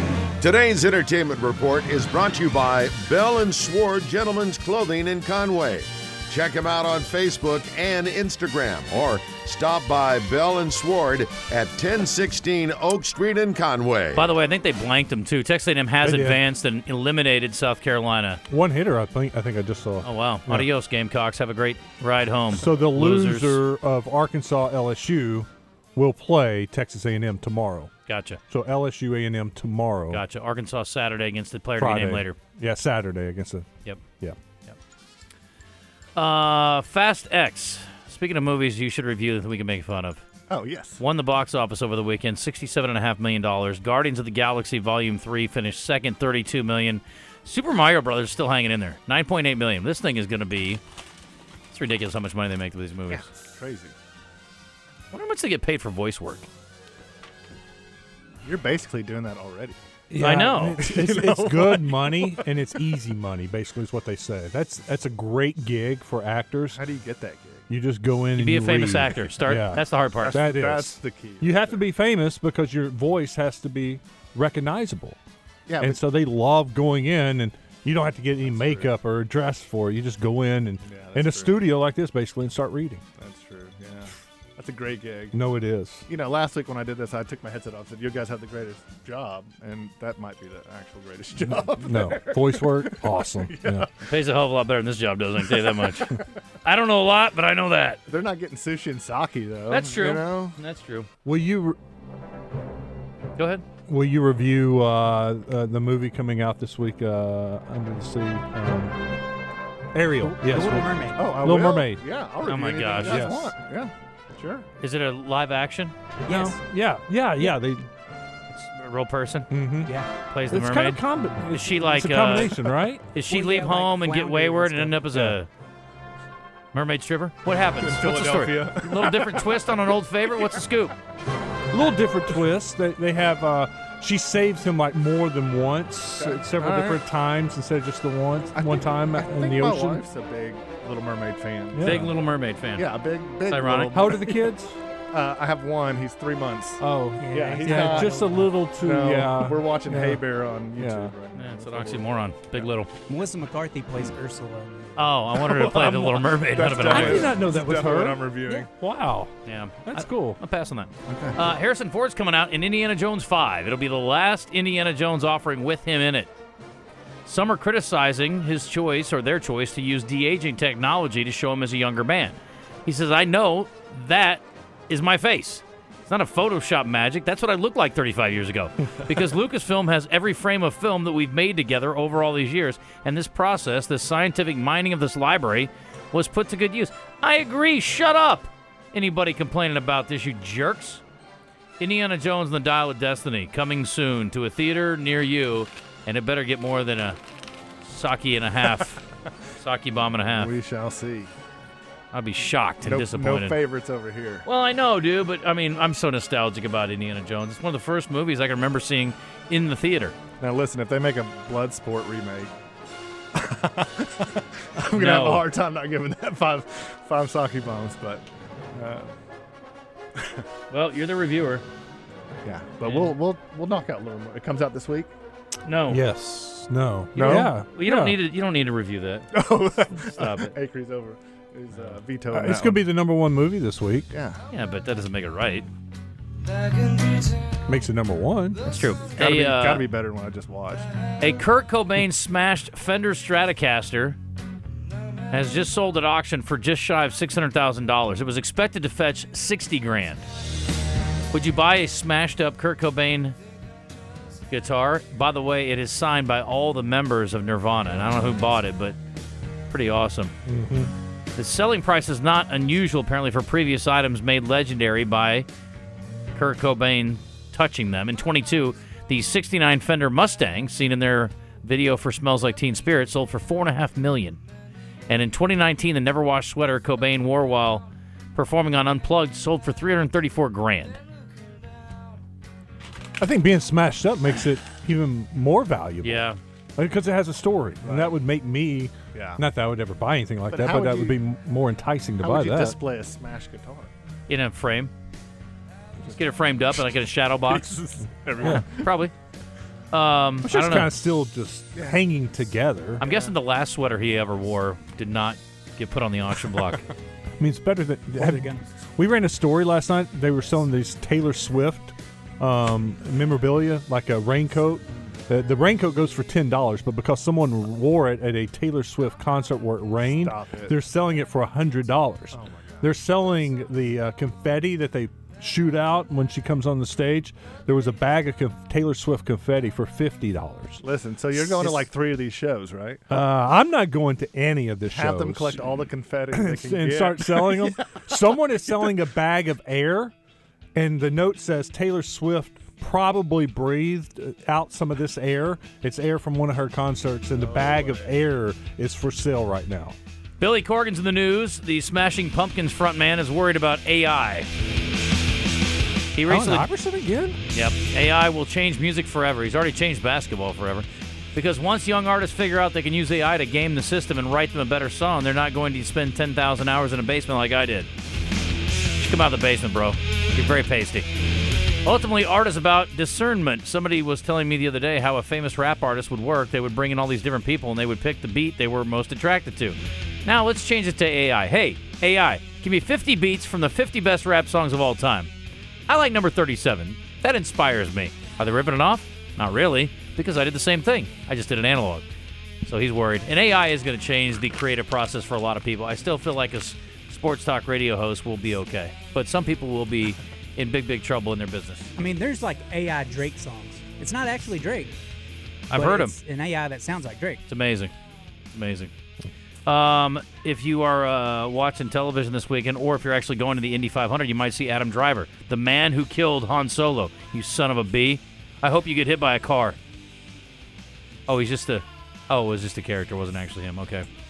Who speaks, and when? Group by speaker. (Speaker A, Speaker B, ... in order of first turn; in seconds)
Speaker A: 0.4-14.3
Speaker B: 14.2-18.4, 20.0-23.6, 28.1-28.4, 30.1-32.4, 36.2-40.2, 41.0-50.8, 51.7-53.2, 55.1-56.5, 60.2-60.8, 68.4-70.4, 94.0-98.0, 99.7-101.1, 103.4-103.6, 112.4-113.4, 114.8-116.0, 118.5-119.6, 120.3-122.6, 123.1-125.5, 126.7-131.0, 141.8-142.9, 143.5-143.9, 151.3-152.9, 155.0-157.3, 159.5-166.3, 167.2-191.0, 191.8-197.2, 197.8-199.0, 199.6-200.5, 202.1-203.6, 204.4-210.2, 214.9-215.5, 220.7-221.7, 222.8-223.2, 225.7-226.0, 227.2-229.3, 229.9-230.5, 234.5-235.7, 238.7-239.8, 241.2-244.2, 245.3-250.3, 251.3-253.4, 254.5-259.0, 259.7-260.3, 261.4-265.5, 266.4-274.4, 275.1-281.0, 286.0-286.4, 294.3-294.9, 296.1-297.7, 298.4-299.1, 299.9-300.9, 303.0-306.9, 350.4-354.5, 356.1-356.7, 357.5-367.9, 369.0-371.1, 371.9-385.3, 385.9-392.1, 392.6-401.9, 405.7-406.1, 407.5-407.9, 408.5-408.9, 409.7-419.8, 421.3-424.1
Speaker C: 16.0-16.4, 18.5-20.7, 22.6-27.9, 28.5-30.2, 31.8-33.7, 60.1-66.8, 67.7-75.2, 75.8-83.0, 85.3-86.1, 91.4-93.9, 101.2-101.8, 103.9-109.0, 109.9-112.0, 113.0-113.5, 116.3-117.9, 119.5-119.9, 120.5-123.2, 125.1-125.4, 131.7-140.0, 141.7-142.1, 143.9-144.8, 146.8-150.2, 150.8-151.1, 156.7-159.3, 159.9-160.4, 225.9-228.2, 232.3-234.1, 237.7-238.6, 260.5-260.9, 283.2-292.8, 300.4-303.0, 307.4-331.9, 333.1-335.6, 336.3-340.1, 340.8-349.9, 356.3-357.4
Speaker D: 40.5-41.0, 53.1-53.9, 58.4-59.8, 60.8-62.5, 66.7-67.7, 70.2-71.8, 75.7-76.0, 78.4-78.9, 80.8-81.6, 83.2-85.4, 86.1-93.9, 98.1-100.6, 111.2-114.7, 127.8-129.7, 136.2-137.0, 138.6-142.1, 142.8-144.5, 145.1-152.7, 155.4-158.7, 161.1-161.4, 200.3-201.3, 202.8-204.5, 210.4-212.5, 213.3-219.1, 220.2-220.4, 222.4-225.1, 227.2-227.5, 229.3-232.9, 234.1-234.4, 239.2-240.9, 287.8-288.2, 289.1-289.4, 290.5-291.2, 292.2-293.9, 297.5-298.9, 303.0-303.4, 320.1-320.8, 322.3-322.9, 330.8-333.0, 334.9-338.0, 347.3-348.1
Speaker E: 110.2-111.4, 116.3-116.6, 123.3-125.0, 147.2-148.3, 153.1-155.1, 308.2-308.6, 402.0-405.0, 405.7-407.4